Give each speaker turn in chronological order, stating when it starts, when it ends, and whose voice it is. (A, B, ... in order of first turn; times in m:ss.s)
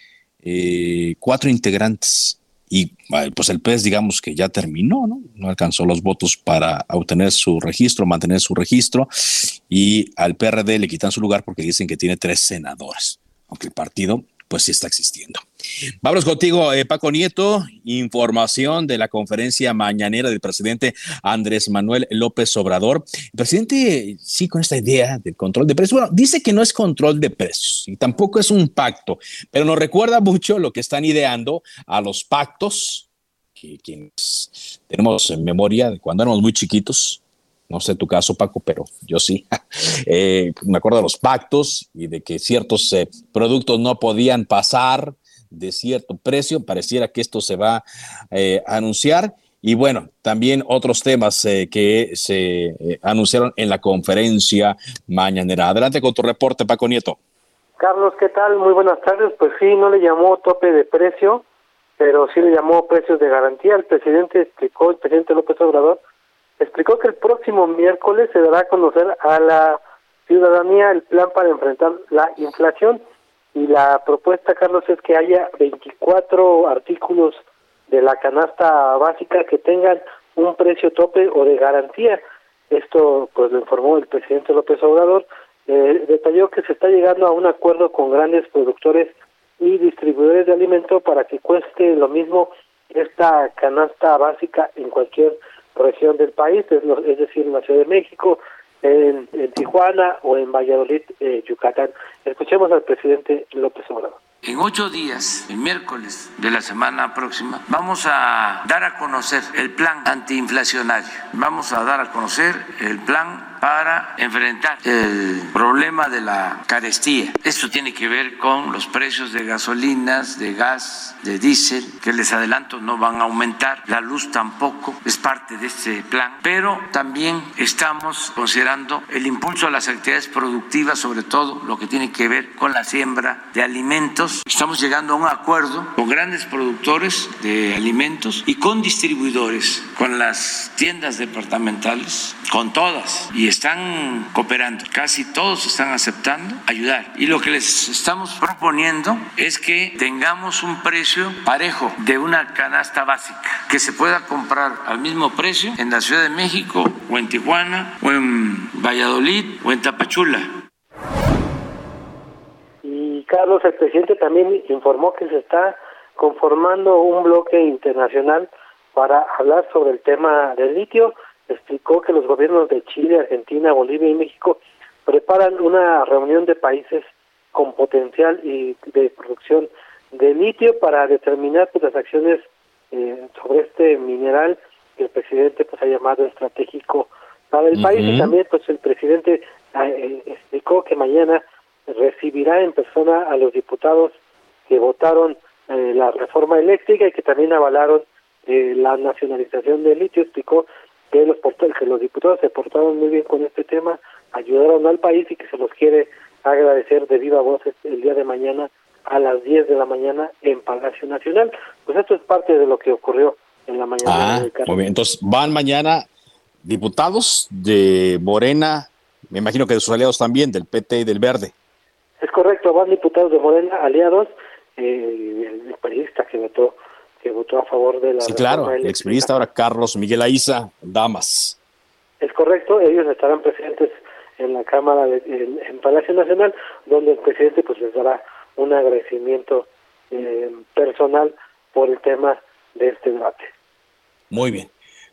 0:00.4-0:15.4 A
0:16.0-0:33.0 A
0:33.6-0:57.2 A
0:57.8-1:01.4 B
1:02.0-1:06.0 B
1:06.6-1:13.0 B
1:13.5-1:44.2 B
1:44.4-2:40.5 C
2:42.8-3:14.2 B
3:07.7-3:08.3 A
3:14.7-3:34.8 B
3:34.0-3:36.0 A
3:36.6-3:41.5 A
3:42.2-3:49.4 B
3:48.2-3:51.6 A
3:52.2-4:03.5 B
4:04.3-4:04.7 A